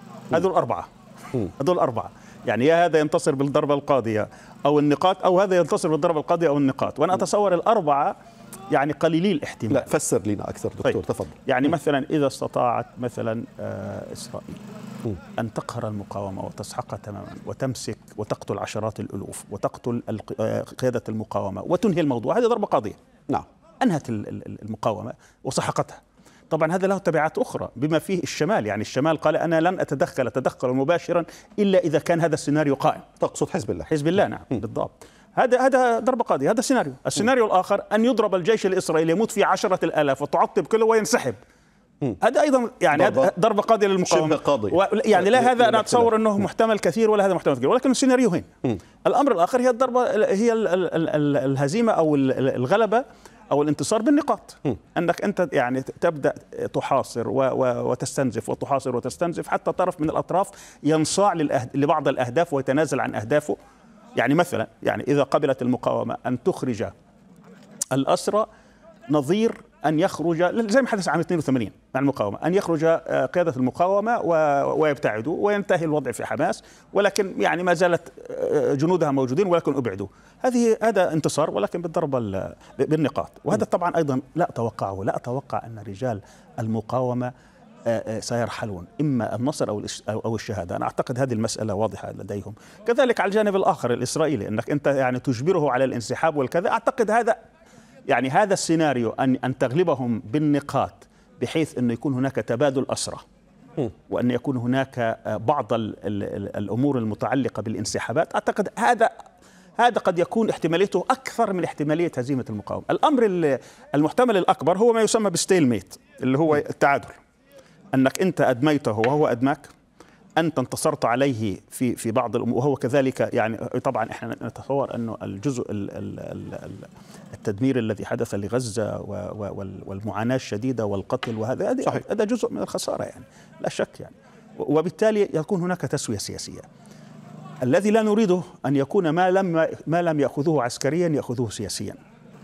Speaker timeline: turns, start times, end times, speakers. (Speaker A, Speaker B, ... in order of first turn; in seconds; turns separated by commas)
Speaker A: 0.3-8.1, Speaker A: 8.7-9.9, Speaker B: 9.7-11.4, Speaker A: 10.8-14.6, Speaker A: 15.4-23.0, Speaker A: 23.8-33.1, Speaker B: 33.2-33.9, Speaker A: 33.9-41.4, Speaker A: 42.2-63.6, Speaker B: 42.9-43.3, Speaker B: 44.1-46.1, Speaker A: 64.2-66.9, Speaker A: 67.9-68.5, Speaker A: 69.1-87.3, Speaker A: 87.9-97.4, Speaker A: 98.1-103.2, Speaker A: 104.1-109.1, Speaker A: 109.8-117.2, Speaker A: 117.9-119.7, Speaker A: 120.4-136.7, Speaker A: 137.6-142.0